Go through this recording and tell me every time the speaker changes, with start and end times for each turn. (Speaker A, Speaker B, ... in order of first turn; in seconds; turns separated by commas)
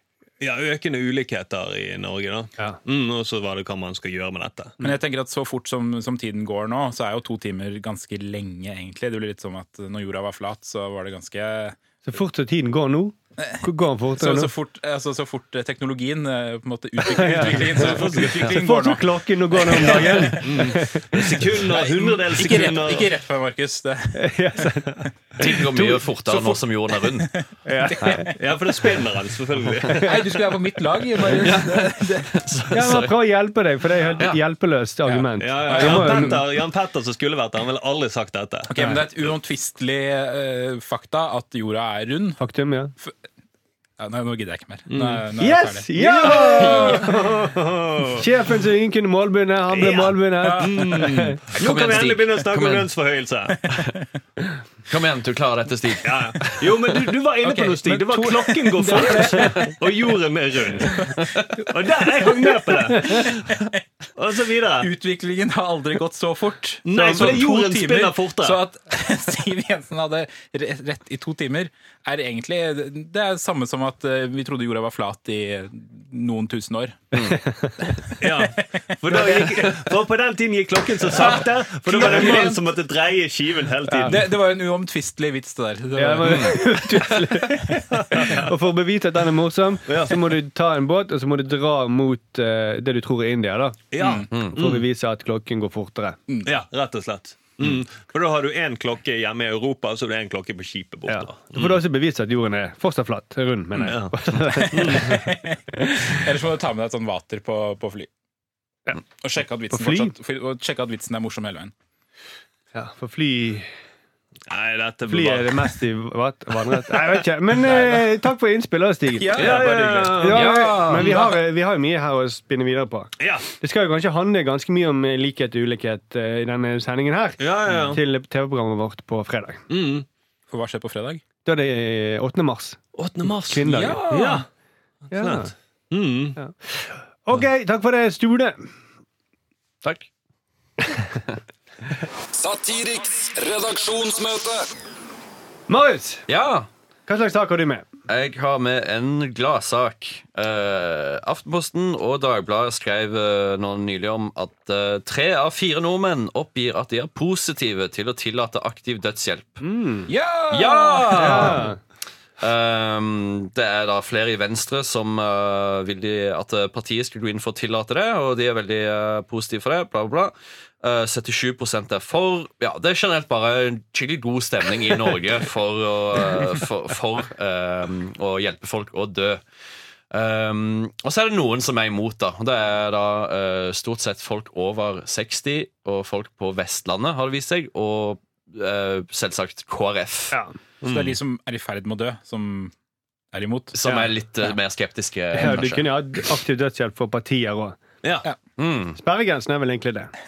Speaker A: 0.4-4.7, Speaker B: 4.8-11.8, Speaker C: 12.1-14.5, Speaker B: 13.4-20.7, Speaker C: 17.0-21.5, Speaker A: 17.4-18.6, Speaker A: 19.8-23.1, Speaker B: 21.7-24.2, Speaker C: 24.2-26.0, Speaker D: 25.4-27.3, Speaker B: 26.2-28.3, Speaker C: 27.6-28.4, Speaker D: 28.0-28.3, Speaker A: 28.4-30.1, Speaker C: 29.9-30.1, Speaker B: 30.0-32.4, Speaker D: 31.3-33.1, Speaker C: 32.7-36.4, Speaker B: 35.0-36.4, Speaker A: 35.4-38.7, Speaker B: 38.7-42.4, Speaker C: 42.4-42.9, Speaker B: 44.0-47.0, Speaker A: 44.9-45.2, Speaker C: 45.4-47.4, Speaker A: 46.0-48.3, Speaker C: 48.1-51.3, Speaker A: 49.7-53.7, Speaker B: 50.4-51.0, Speaker D: 51.6-52.9, Speaker D: 54.9-56.9, Speaker A: 56.0-61.1, Speaker C: 57.9-59.8, Speaker D: 61.2-61.5, Speaker A: 61.7-63.4, Speaker C: 63.0-63.3, Speaker A: 64.2-64.9, Speaker B: 64.8-77.0, Speaker A: 66.8-68.6, Speaker C: 66.9-67.4, Speaker D: 77.1-77.4, Speaker C: 77.1-78.0, Speaker A: 78.2-84.2, Speaker B: 81.1-82.6, Speaker C: 83.9-84.2, Speaker B: 84.0-87.8, Speaker C: 86.0-93.8, Speaker D: 86.2-86.5, Speaker A: 87.9-88.5, Speaker A: 89.9-90.3, Speaker A: 93.9-94.8, Speaker B: 94.0-94.3, Speaker D: 94.3-94.6, Speaker C: 94.4-96.2, Speaker A: 96.4-101.8, Speaker C: 101.1-106.2, Speaker A: 103.8-104.1, Speaker B: 104.5-108.1, Speaker A: 104.7-105.2, Speaker B: 109.2-111.7, Speaker C: 109.7-110.1, Speaker C: 112.7-113.7, Speaker A: 114.5-115.7, Speaker C: 115.1-119.5, Speaker A: 116.9-117.2, Speaker B: 117.6-117.9, Speaker B: 119.2-120.7, Speaker A: 119.3-121.3, Speaker C: 120.2-129.6, Speaker D: 120.2-121.1, Speaker A: 123.2-123.5, Speaker A: 127.4-128.0, Speaker A: 129.7-130.1, Speaker B: 130.5-131.2, Speaker C: 131.4-132.8, Speaker A: 132.9-134.4, Speaker C: 133.4-134.0, Speaker B: 133.7-134.4, Speaker A: 135.1-136.4, Speaker C: 135.1-135.5, Speaker C: 136.4-138.7, Speaker D: 139.8-140.1, Speaker E: 142.3-144.6, Speaker C: 145.7-146.2, Speaker D: 146.3-146.7, Speaker C: 147.1-147.9, Speaker D: 148.1-159.6, Speaker C: 159.6-160.1, Speaker B: 160.1-161.6, Speaker D: 160.5-161.7, Speaker C: 161.2-161.8, Speaker D: 162.4-179.4, Speaker D: 180.1-190.4, Speaker A: 190.8-191.2, Speaker B: 190.8-192.7, Speaker B: 193.3-193.8, Speaker D: 193.7-195.9, Speaker C: 193.8-194.1, Speaker C: 195.3-197.8, Speaker D: 198.6-199.0, Speaker C: 199.0-200.1